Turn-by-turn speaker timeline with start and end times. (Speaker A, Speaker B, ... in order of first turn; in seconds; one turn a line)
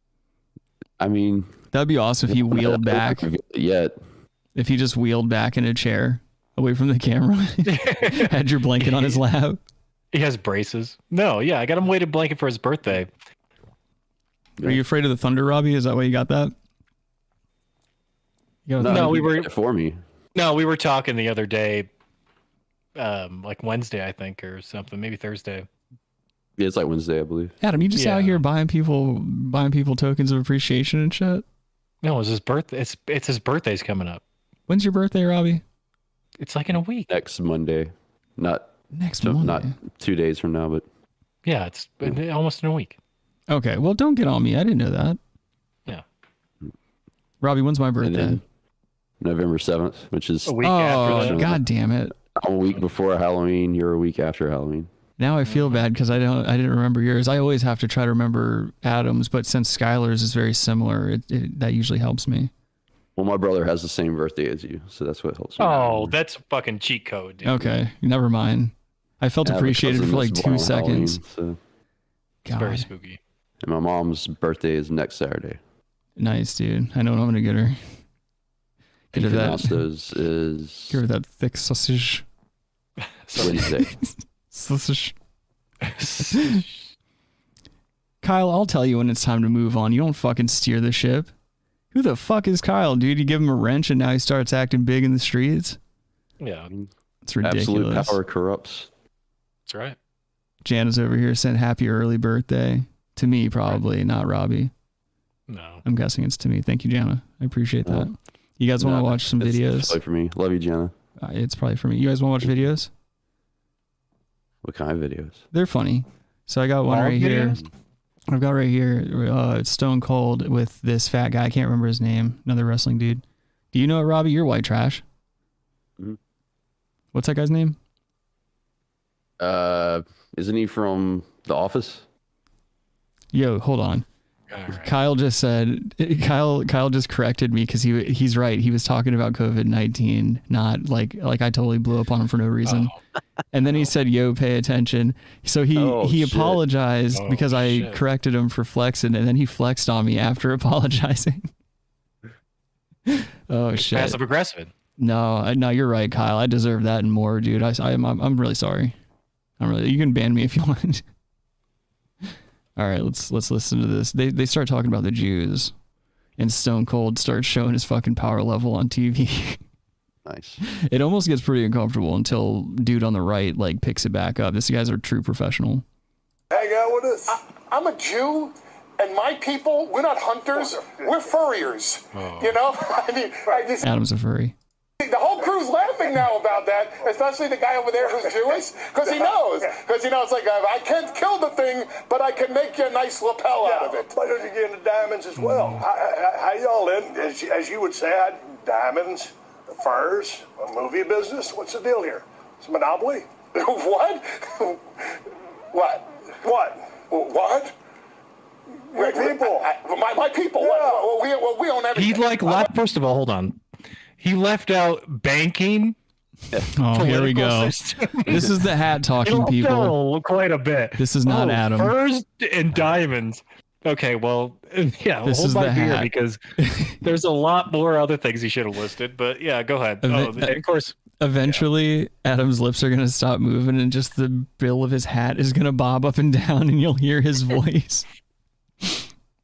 Speaker A: 1.0-1.5
Speaker B: 1.7-3.3
Speaker A: 2.3-4.0
Speaker B: 4.5-9.6
Speaker C: 7.7-9.2
Speaker C: 10.1-13.1
Speaker B: 14.6-16.5
Speaker B: 18.7-19.3
Speaker A: 18.8-20.0
Speaker C: 18.9-19.5
Speaker C: 20.4-21.9
Speaker C: 23.0-25.7
Speaker A: 26.6-27.6
Speaker B: 27.6-31.4
Speaker C: 27.9-28.4
Speaker C: 32.0-34.2
Speaker B: 34.7-35.6
Speaker C: 36.4-37.1
Speaker A: 37.1-38.7
Speaker B: 38.9-39.7
Speaker A: 39.2-40.9
Speaker C: 41.5-43.0
Speaker B: 43.5-45.2
Speaker B: 47.4-48.4
Speaker A: 48.0-48.4
Speaker A: 49.2-51.6
Speaker C: 50.5-51.4
Speaker B: 50.6-52.1
Speaker A: 52.4-54.9
Speaker B: 55.2-62.5
Speaker C: 55.5-55.8
Speaker A: 63.2-66.2
Speaker C: 65.6-67.7
Speaker B: 67.4-71.2
Speaker A: 69.5-71.6
Speaker B: 72.5-72.9
Speaker C: 72.5-73.2
Speaker A: 73.6-75.6
Speaker B: 76.2-77.8
Speaker B: 79.1-79.8
Speaker A: 79.1-81.0
Speaker B: 80.9-82.2
Speaker C: 83.3-83.7
Speaker A: 83.4-83.9
Speaker B: 83.4-85.2
Speaker C: 85.8-86.7
Speaker B: 86.3-86.6
Speaker B: 88.2-91.3
Speaker B: 91.9-95.8
Speaker C: 96.4-96.7
Speaker B: 97.2-98.2
Speaker A: 97.4-98.9
Speaker C: 99.7-100.0
Speaker B: 100.7-104.7
Speaker C: 105.5-105.8
Speaker B: 105.8-110.0
Speaker A: 108.8-110.9
Speaker B: 111.2-112.9
Speaker A: 114.6-115.4
Speaker B: 115.5-117.6
Speaker C: 116.9-117.6
Speaker B: 118.3-125.0
Speaker B: 127.1-127.8
Speaker A: 129.4-132.1
Speaker B: 133.3-134.1
Speaker C: 134.5-134.9
Speaker B: 134.7-142.9
Speaker C: 142.7-143.0
Speaker B: 143.5-151.5
Speaker A: 145.8-146.6
Speaker C: 147.1-148.0
Speaker B: 153.1-154.2
Speaker C: 153.8-154.7
Speaker B: 155.0-159.0
Speaker B: 159.6-161.0
Speaker B: 162.8-165.7
Speaker B: 166.4-169.6
Speaker A: 170.2-170.6
Speaker B: 170.7-175.8
Speaker D: 176.5-177.4
Speaker E: 177.3-183.9
Speaker C: 182.2-182.5
Speaker B: 183.8-184.6
Speaker E: 185.0-194.1
Speaker D: 189.0-189.4
Speaker D: 193.6-203.3
Speaker E: 203.6-204.7
Speaker E: 205.7-206.1
Speaker D: 206.4-207.7
Speaker E: 207.1-207.5
Speaker D: 208.9-209.7
Speaker E: 208.9-212.7
Speaker D: 210.6-211.1
Speaker C: 211.9-213.6
Speaker C: 214.2-216.0
Speaker B: 216.7-220.0
Speaker C: 216.9-218.6
Speaker C: 219.2-226.4
Speaker B: 221.0-222.0
Speaker B: 225.2-227.0
Speaker C: 227.0-231.7
Speaker B: 230.0-230.6
Speaker B: 231.2-238.1